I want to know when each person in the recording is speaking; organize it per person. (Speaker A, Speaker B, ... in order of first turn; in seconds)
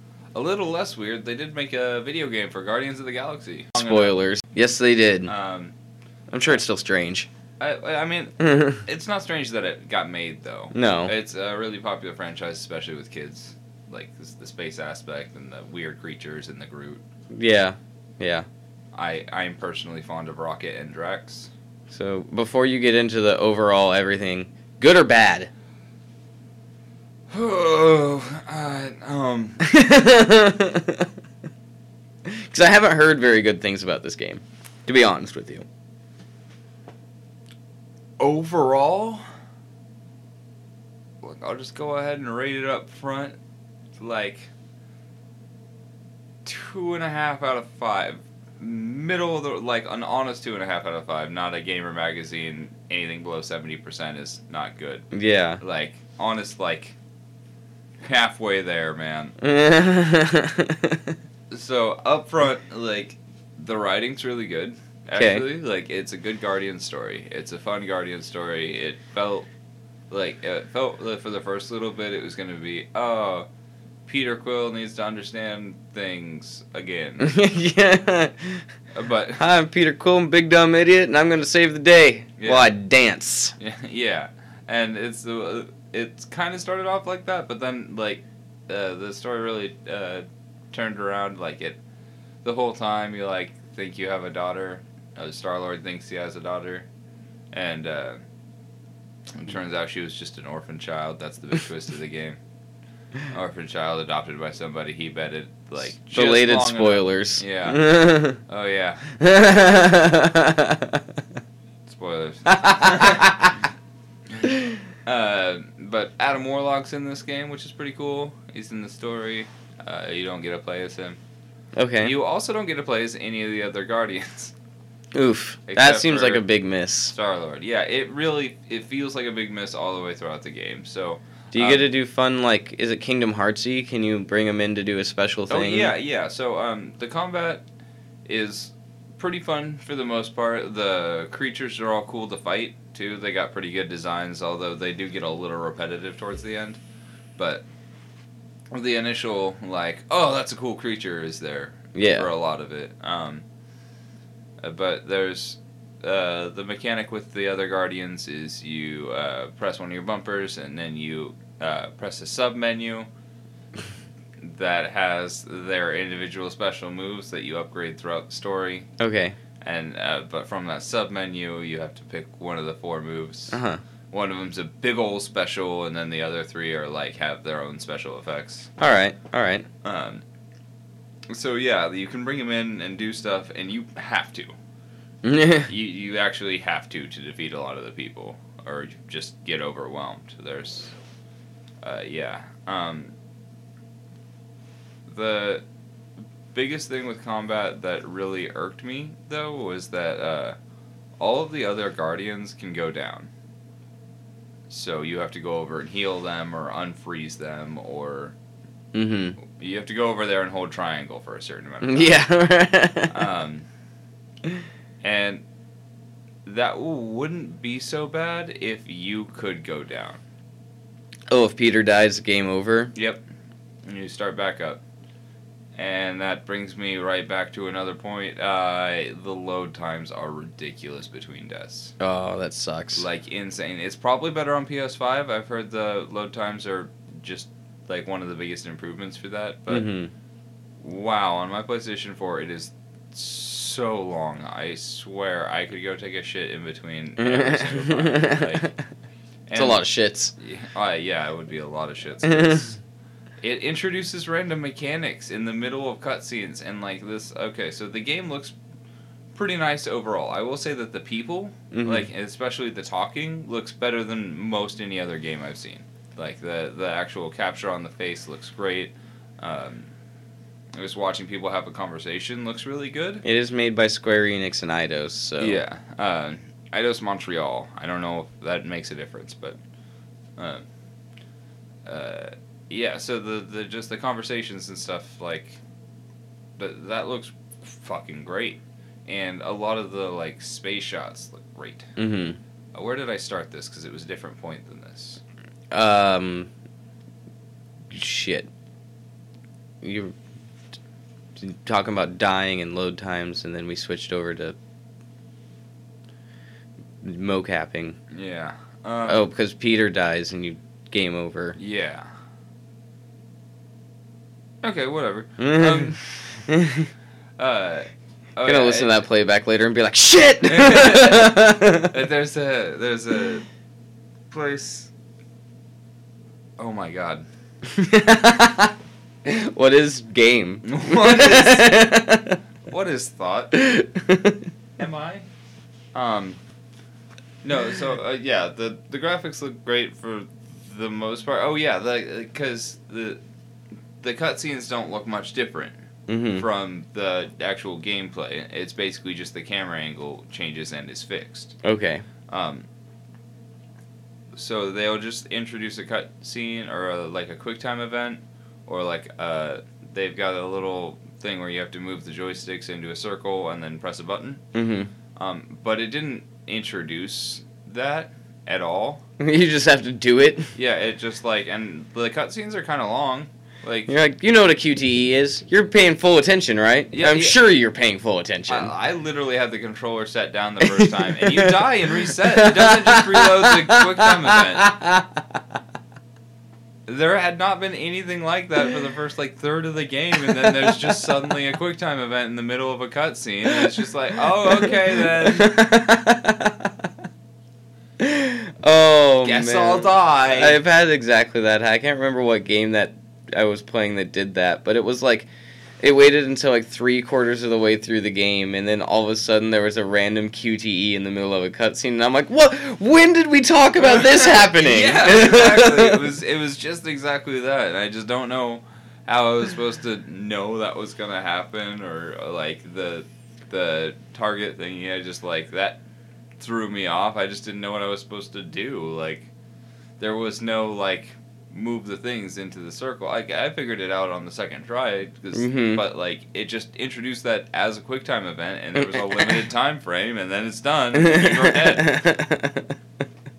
Speaker A: 0.3-4.2, 5.3-5.8, 7.6-17.0, 18.9-21.5, 27.3-29.6, 38.2-39.3, 41.2-43.4, 44.0-44.5, 46.4-55.1, 55.6-57.0, 58.0-59.4, 61.5-69.5, 70.1-73.5, 74.1-77.3, 78.9-79.4, 82.4-82.7, 83.6-91.8, 92.4-96.9, 97.5-98.2, 99.3-102.4, 103.3-109.2, 111.9-113.4, 115.0-121.2, 122.0-124.5, 125.7-126.5, 127.1-131.9, 135.5-137.7, 138.3-146.8, 147.4-147.7, 148.7-153.4, 154.6-163.1, 164.4-168.9, 169.6-173.6, 174.1-178.7, 179.8-180.2, 181.3-184.5, 185.7-190.9, 191.8-193.2, 195.1-195.7, 196.5-200.6, 201.2-203.3, 204.7-208.4, 209.4-212.2, 213.1-213.7, 215.0-215.4, 216.4-220.2, 222.9-223.2, 223.8-224.8, 225.8-231.9, 232.9-239.9, 240.8-248.7, 249.5-249.8, 250.4-252.8, 253.4-258.6, 259.3-269.9, 270.7-273.2, 275.4-279.6, 280.4-280.6, 281.9-285.6, 286.6-291.9, 292.7-295.2, 308.1-309.2, 311.6-312.1, 314.6-316.5, 317.4-319.0, 320.4-323.5, 324.3-324.9, 326.6-327.3, 330.6-332.0, 332.7-333.5, 334.8-335.3, 335.9-336.4, 337.4-343.2, 344.0-345.8, 346.4-351.6, 352.3-352.7, 354.3-364.4, 365.2-369.0, 370.5-373.9, 376.9-377.4, 378.5-384.7, 386.9-395.7, 399.2-400.6, 413.8-425.8, 426.4-429.3, 430.0-442.0
Speaker B: 3.8-5.3, 6.3-7.3, 8.4-8.8, 10.7-11.1, 17.3-18.5, 21.9-25.5, 29.6-31.1, 32.3-35.7, 55.1-55.6, 59.4-61.1, 65.2-65.5, 77.2-78.6, 79.4-83.5, 105.9-108.4, 109.2-111.0, 112.5-113.6, 114.5-114.7, 121.8-122.1, 125.1-127.1, 131.5-135.9, 151.9-152.3, 169.0-169.4, 173.5-173.8, 178.8-179.7, 185.2-185.7, 208.9-209.4, 211.8-213.2, 221.3-222.9, 232.0-233.1, 239.7-240.1, 247.2-248.7, 249.6-250.3, 261.7-262.1, 273.2-275.6, 292.0-292.4, 295.7-296.5, 297.9-298.5, 299.8-300.1, 301.4-304.6, 307.0-308.0, 309.1-311.6, 315.4-316.9, 318.4-321.9, 327.7-332.4, 333.5-334.4, 346.1-346.4, 351.6-352.1, 364.5-364.9, 369.2-370.5, 373.9-378.7, 380.6-385.4, 394.7-396.9, 398.0-405.3, 405.8-416.1, 435.3-435.8, 441.0-442.7